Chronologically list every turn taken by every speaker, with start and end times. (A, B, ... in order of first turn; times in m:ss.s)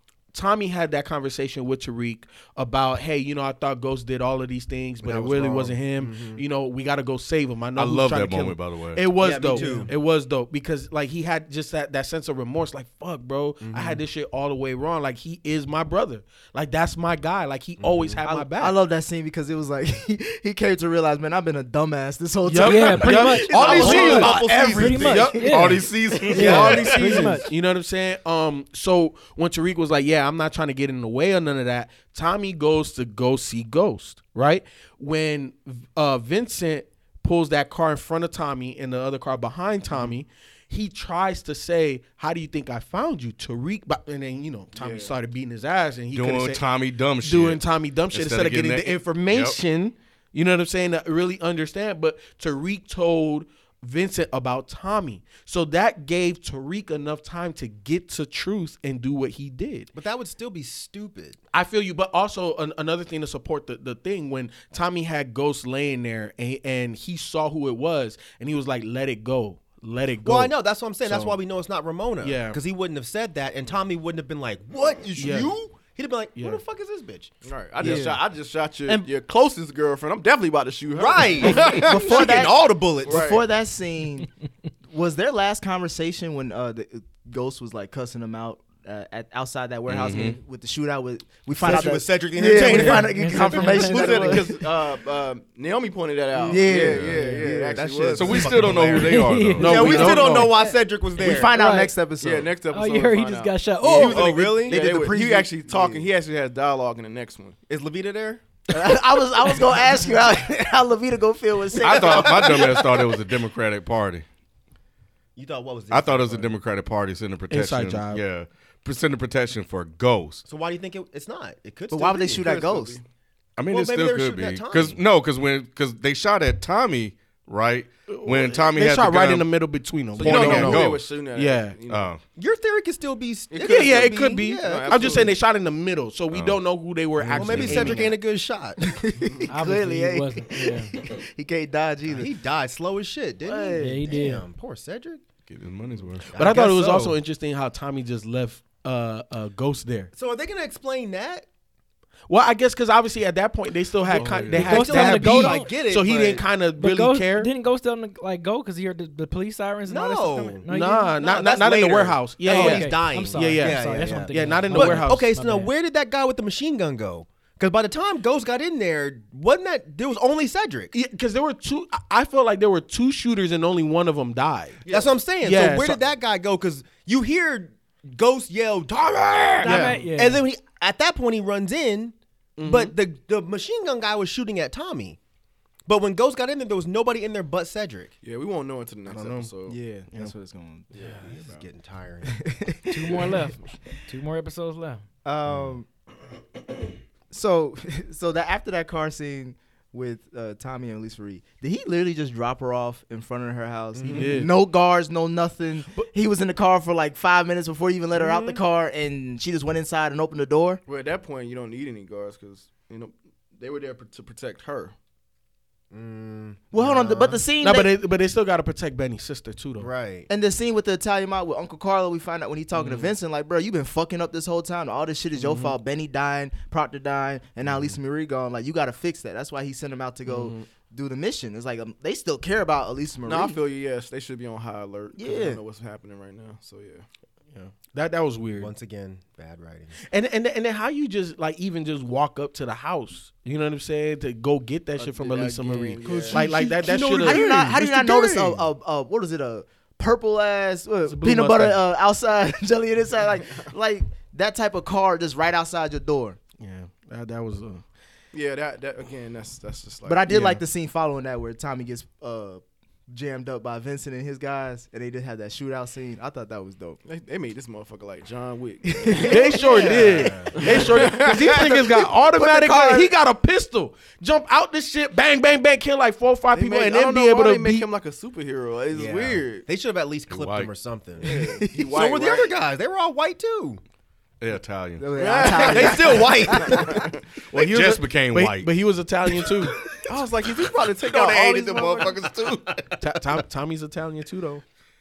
0:00.3-0:18.8 A
0:05.0-0:06.4 B
0:07.8-0:09.1 C
0:09.2-0:09.9 B
0:09.6-0:09.9 D
0:13.6-0:14.0 B
0:17.8-0:18.2 B
0:18.3-0:25.5 D
0:22.4-0:46.6 A
0:22.6-0:27.5 E
0:23.4-0:25.4 B
0:25.4-0:27.0 C
0:26.4-0:26.8 B
0:44.8-0:45.1 F
0:46.1-0:49.6 C
0:47.2-0:59.9 A
0:59.9-1:01.4 B
1:01.5-1:11.4 A
1:10.2-1:17.3 B
1:12.2-1:12.6 A
1:15.2-1:15.5 A
1:16.4-1:16.6 A
1:17.4-1:22.5 F
1:17.8-1:18.1 A
1:17.8-1:18.2 D
1:21.0-1:23.3 B
1:21.5-1:24.3 D
1:23.0-1:23.4 F
1:24.9-1:34.6 D
1:29.9-1:30.4 C
1:31.6-1:33.4 B
1:32.5-1:34.5 E
1:33.6-1:38.7 F
1:36.4-1:38.1 D
1:37.1-1:37.5 E
1:37.7-1:41.5 B
1:38.1-1:40.2 C
1:38.9-1:40.8 E
1:39.6-1:40.6 A
1:41.2-1:42.5 D
1:41.3-1:41.9 E
1:42.2-1:47.6 F
1:42.7-1:44.4 E
1:43.8-1:46.0 B
1:44.7-1:45.2 D
1:47.7-1:48.4 B
1:48.7-1:52.9 D
1:51.8-1:54.3 C
1:51.9-1:52.8 B
1:55.4-1:56.6 B
1:55.9-2:00.5 C
1:57.5-1:58.2 A
2:00.5-2:02.7 B
2:01.9-2:03.0 D
2:02.4-2:03.0 F
2:03.6-2:09.5 C
2:03.7-2:05.0 B
2:08.1-2:11.8 A
2:10.2-2:11.1 C
2:10.2-2:12.1 F
2:11.9-2:12.2 C
2:12.4-2:15.3 B
2:13.5-2:15.3 F
2:13.6-2:18.2 A
2:16.3-2:16.6 C
2:17.2-2:18.1 C
2:17.3-2:18.9 B
2:18.8-2:22.3 D
2:19.2-2:19.5 F
2:19.5-2:20.9 E
2:22.1-2:25.2 B
2:23.4-2:24.1 D
2:23.8-2:24.4 E
2:25.5-2:26.6 C
2:26.3-2:27.1 B
2:26.3-2:30.1 A
2:30.1-2:31.5 B
2:32.3-2:37.5 A
2:34.1-2:34.8 C
2:34.4-2:36.4 B
2:34.6-2:35.7 E
2:36.8-2:41.1 E
2:39.8-2:50.9 B
2:40.7-2:45.4 A
2:42.5-2:45.7 E
2:50.9-2:56.0 A
2:54.9-3:05.2 B
2:59.6-3:00.5 E
2:59.6-3:00.0 A
3:02.6-3:03.0 A
3:05.9-3:08.1 B
3:08.2-3:09.8 F
3:09.1-3:09.5 A
3:09.7-3:11.6 D
3:10.9-3:11.4 F
3:10.9-3:12.4 B
3:12.2-3:13.4 D
3:12.9-3:15.0 E
3:15.2-3:15.9 D
3:15.5-3:15.7 B
3:17.3-3:30.8 D
3:24.0-3:24.4 B
3:24.1-3:24.5 A
3:28.2-3:28.6 B
3:30.9-3:34.9 F
3:35.9-3:36.7 B
3:36.7-3:37.9 D
3:37.1-3:39.9 A
3:39.8-3:40.3 B
3:40.3-3:53.6 D
3:42.7-3:43.1 A
3:45.4-3:45.8 A
3:47.7-3:48.0 B
3:50.3-3:50.6 A
3:53.3-3:57.0 F
3:55.2-3:55.6 D
3:57.5-3:58.7 A
3:58.6-4:00.0 B
4:00.0-4:08.6 A
4:05.0-4:06.4 F
4:06.1-4:16.4 D
4:06.3-4:08.4 B
4:11.1-4:11.8 A
4:16.6-4:17.8 A
4:18.3-4:20.3 F
4:20.1-4:27.0 D
4:20.3-4:20.6 A
4:27.1-4:29.9 F
4:29.1-4:29.8 D
4:29.2-4:30.7 B
4:29.3-4:37.9 A
4:30.5-4:31.9 F
4:31.4-4:33.1 D
4:36.5-4:39.7 F
4:38.9-4:43.8 B
4:40.3-4:40.7 C
4:41.2-4:42.5 F
4:41.4-4:41.9 D
4:44.4-4:45.2 C
4:45.0-4:47.0 D
4:45.2-4:47.2 F
4:45.5-4:47.1 B
4:47.5-4:48.7 C
4:47.5-4:49.8 A
4:50.0-4:52.3 F
4:51.1-4:52.5 C
4:51.2-4:53.0 B
4:53.0-4:54.6 A